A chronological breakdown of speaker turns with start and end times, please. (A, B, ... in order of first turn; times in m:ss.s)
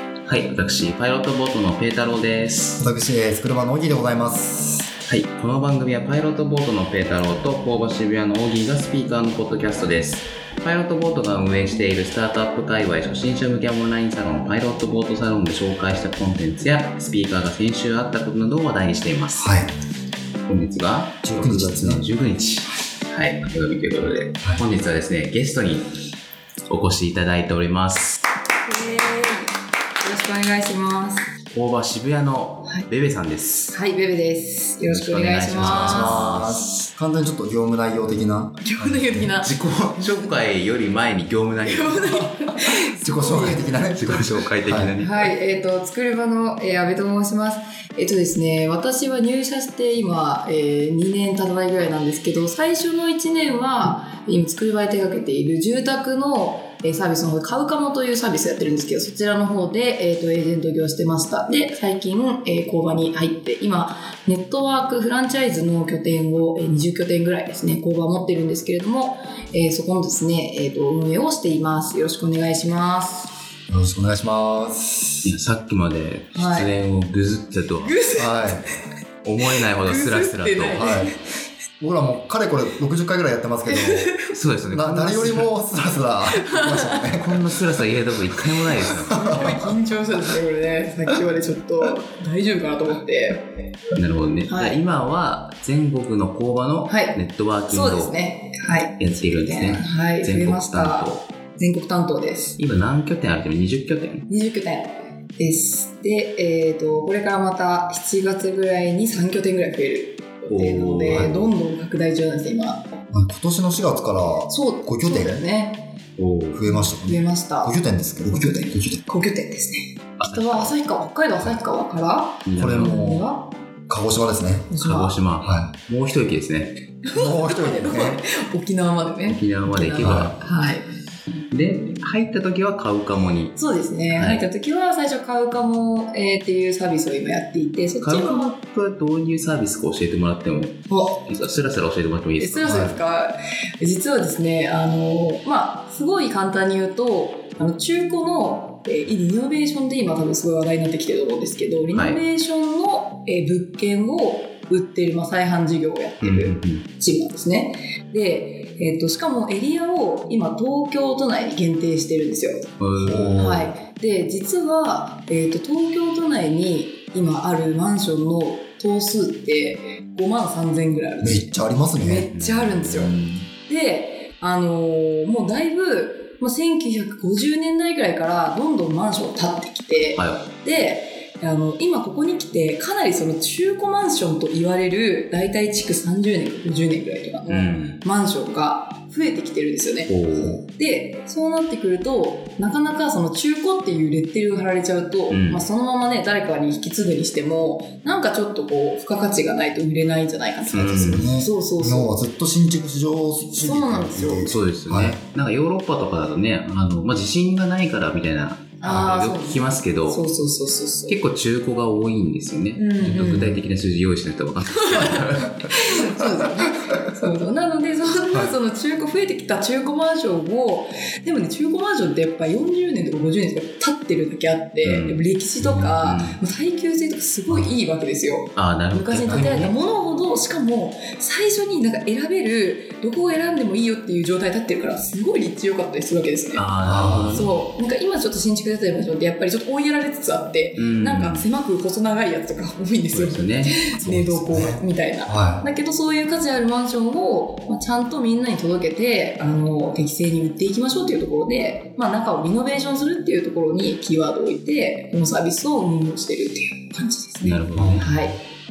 0:00.2-0:02.8 A
0:02.8-0:04.9 B
0:05.1-0:19.6 A
0:19.4-0:19.7 B
0:20.5-0:25.9 A
0:21.2-0:22.0 B
0:26.7-0:28.2 A
0:28.6-0:31.3 C
0:31.5-0:33.7 A
0:33.7-0:36.3 C
0:34.8-0:36.6 A
0:35.6-0:39.4 B
0:38.6-0:40.4 C
0:39.4-0:42.2 A
0:41.6-0:43.8 C
0:42.9-0:44.9 B
0:43.8-0:45.3 A
0:45.0-1:13.3 C
1:13.7-1:15.3 B
1:15.2-1:18.0 A
1:16.3-1:16.7 C
1:17.8-1:18.8 C
1:18.2-1:18.6 B
1:19.2-1:20.8 A
1:19.8-1:21.2 C
1:20.7-1:21.1 B
1:21.8-1:24.1 B
1:23.7-1:24.3 C
1:24.3-1:25.5 A
1:24.7-1:27.6 B
1:26.4-1:27.0 C
1:27.1-1:29.5 A
1:29.0-1:33.5 C
1:29.2-1:29.7 B
1:34.0-1:38.2 A
1:34.5-1:34.8 C
1:36.9-1:42.6 C
1:39.0-1:41.2 A
1:42.6-1:44.2 A
1:44.3-1:52.9 C
1:50.5-1:51.5 A
1:51.1-1:51.4 B
1:53.1-1:55.4 B
1:54.5-1:55.9 C
1:56.2-1:56.6 A
1:56.5-1:59.0 B
1:56.6-2:03.5 C
2:00.2-2:00.7 A
2:02.4-2:02.9 A
2:02.6-2:03.3 B
2:03.9-2:04.7 B
2:04.7-2:05.1 C
2:04.8-2:06.7 A
2:05.4-2:05.7 B
2:07.0-2:10.9 C
2:07.1-2:08.2 B
2:09.3-2:10.4 A
2:10.0-2:10.3 B
2:11.5-2:13.6 A
2:13.5-2:18.5 C
2:14.1-2:14.4 A
2:18.0-2:23.0 A
2:20.9-2:21.2 C
2:22.4-2:42.6 C
2:22.6-2:23.0 B
2:31.9-2:32.2 A
2:36.2-2:36.8 A
2:42.8-2:43.5 A
2:43.0-2:43.7 B
2:43.4-3:22.1 C
2:51.2-2:52.3 B
2:52.3-2:53.3 A
3:00.2-3:00.4 A
3:07.5-3:08.0 A
3:10.1-3:10.6 A
3:15.3-3:15.6 A
3:20.7-3:25.2 B
3:20.7-3:21.3 A
3:23.6-3:24.6 C
3:24.4-3:30.2 A
3:28.8-3:31.2 C
3:31.1-3:35.6 A
3:32.7-3:33.6 C
3:34.7-4:18.4 C
3:35.9-3:37.1 B
3:38.3-3:38.5 B
3:44.8-3:46.4 A
3:47.5-3:47.7 B
3:48.5-3:49.7 A
3:49.2-3:49.7 B
3:56.5-3:57.6 A
3:56.8-3:57.5 B
4:00.8-4:01.5 A
4:03.1-4:03.9 A
4:04.0-4:05.6 B
4:17.4-4:18.2 A
4:17.7-4:18.3 B